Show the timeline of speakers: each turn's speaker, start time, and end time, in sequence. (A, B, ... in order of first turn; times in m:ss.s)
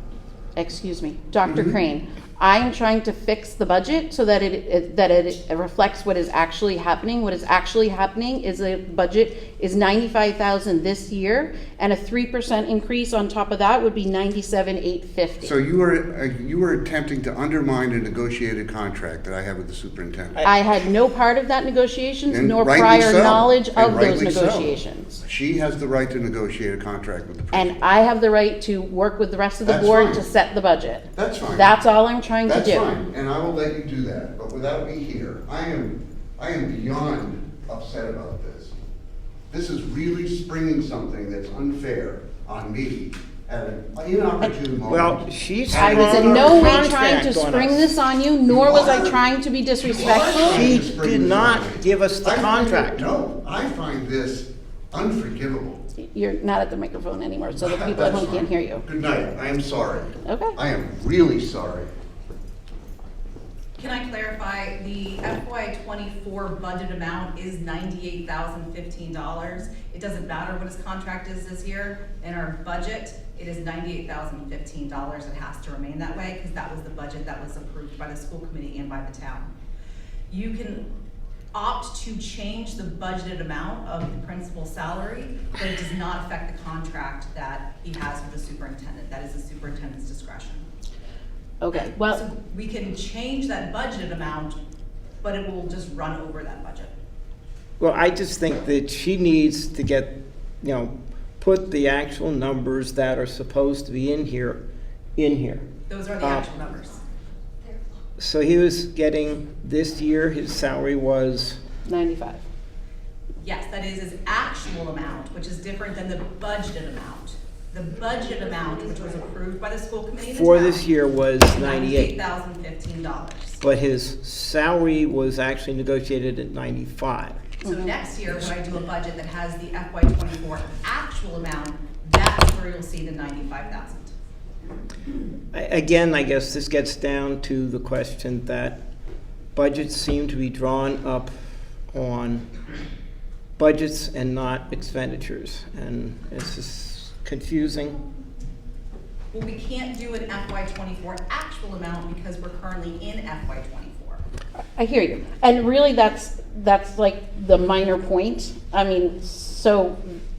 0:00.6-0:15.5 A
0:01.4-0:01.8 B
0:15.4-0:20.4 B
0:20.4-0:25.2 A
0:22.3-0:27.8 B
0:27.5-0:32.9 A
0:29.6-0:30.2 B
0:31.1-0:31.8 B
0:32.4-0:38.7 B
0:39.5-0:46.9 B
0:44.9-0:47.9 C
0:45.7-0:50.8 A
0:48.5-0:49.2 B
0:49.8-0:55.8 B
0:50.3-0:53.0 C
0:56.0-0:58.8 A
0:57.6-1:01.9 B
1:00.2-1:00.5 A
1:03.8-1:19.5 D
1:20.3-1:20.8 D
1:21.5-1:30.6 D
1:31.6-1:32.2 A
1:31.7-1:34.6 D
1:35.2-1:36.9 D
1:37.8-1:44.6 C
1:45.2-1:45.6 C
1:45.9-1:47.0 D
1:46.2-1:46.5 C
1:48.2-1:51.6 C
1:51.8-1:52.4 A
1:53.4-2:00.9 D
2:00.2-2:02.1 C
2:01.5-2:03.6 D
2:03.6-2:07.5 C
2:07.6-2:14.1 D
2:15.5-2:18.8 C
2:19.5-2:22.5 C
2:23.6-2:28.0 C
2:29.3-2:34.2 D
2:34.8-2:40.0 A